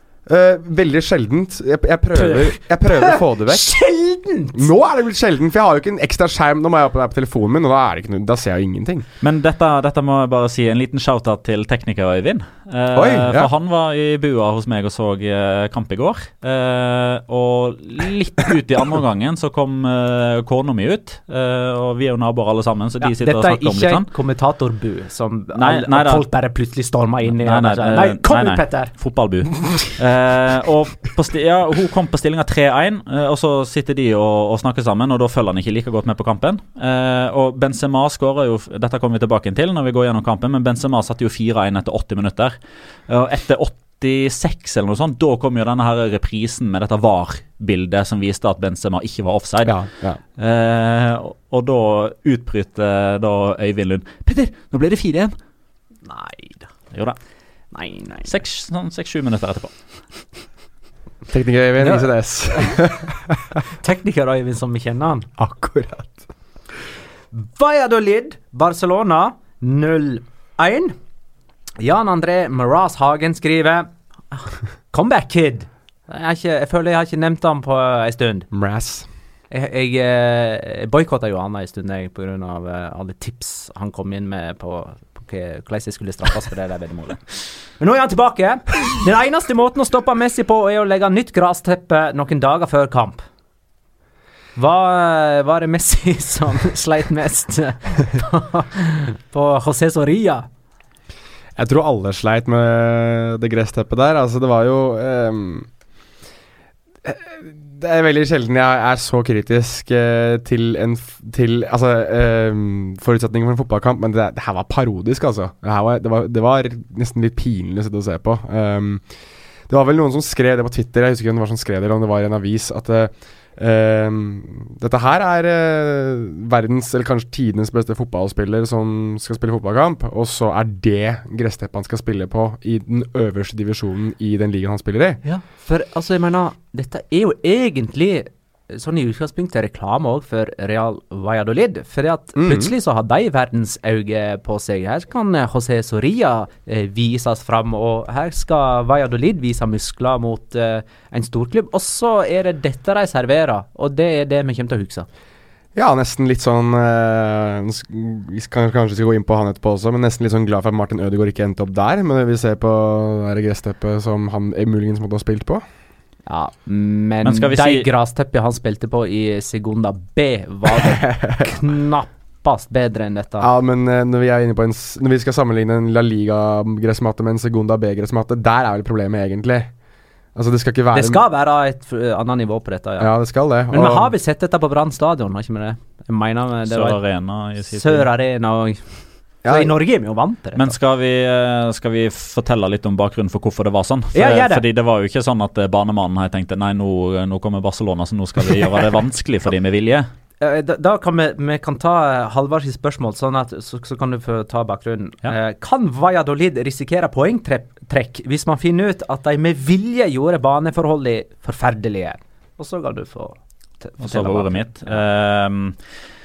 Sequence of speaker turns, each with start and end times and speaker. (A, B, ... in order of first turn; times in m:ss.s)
0:00.3-0:03.8 A
0:02.1-0:04.6 B
0:04.5-0:09.1 A
0:09.2-0:24.1 C
0:12.9-0:13.5 A
0:23.0-0:28.9 B
0:25.6-0:26.3 C
0:27.3-0:42.6 C
0:43.1-0:49.8 C
0:49.6-0:50.2 A
0:50.4-0:55.4 C
0:56.1-0:56.7 B
0:56.9-0:57.2 C
0:57.7-0:58.3 B
0:58.2-1:00.0 C
1:01.3-1:03.5 A
1:01.8-1:02.7 B
1:03.7-1:05.3 B
1:05.4-1:06.2 A
1:07.3-1:11.0 B
1:11.8-1:18.5 B
1:18.5-1:19.1 A
1:19.5-1:33.2 B
1:34.6-1:40.5 B
1:41.6-1:45.7 A
1:47.0-1:59.0 A
1:59.7-2:15.2 A
2:15.2-2:35.1 B
2:22.4-2:22.7 A
2:35.8-2:45.6 A
2:46.3-2:53.5 B
2:47.2-2:47.9 C
2:51.0-2:51.5 A
2:53.4-2:59.7 A
3:00.4-3:01.2 A
3:00.9-3:03.1 B
3:03.0-3:04.1 A
3:03.7-3:07.0 B
3:06.7-3:08.1 C
3:07.7-3:10.8 B
3:09.4-3:09.7 A
3:10.6-3:20.1 C
3:14.1-3:14.6 B
3:20.4-3:35.0 B
3:34.0-3:35.8 C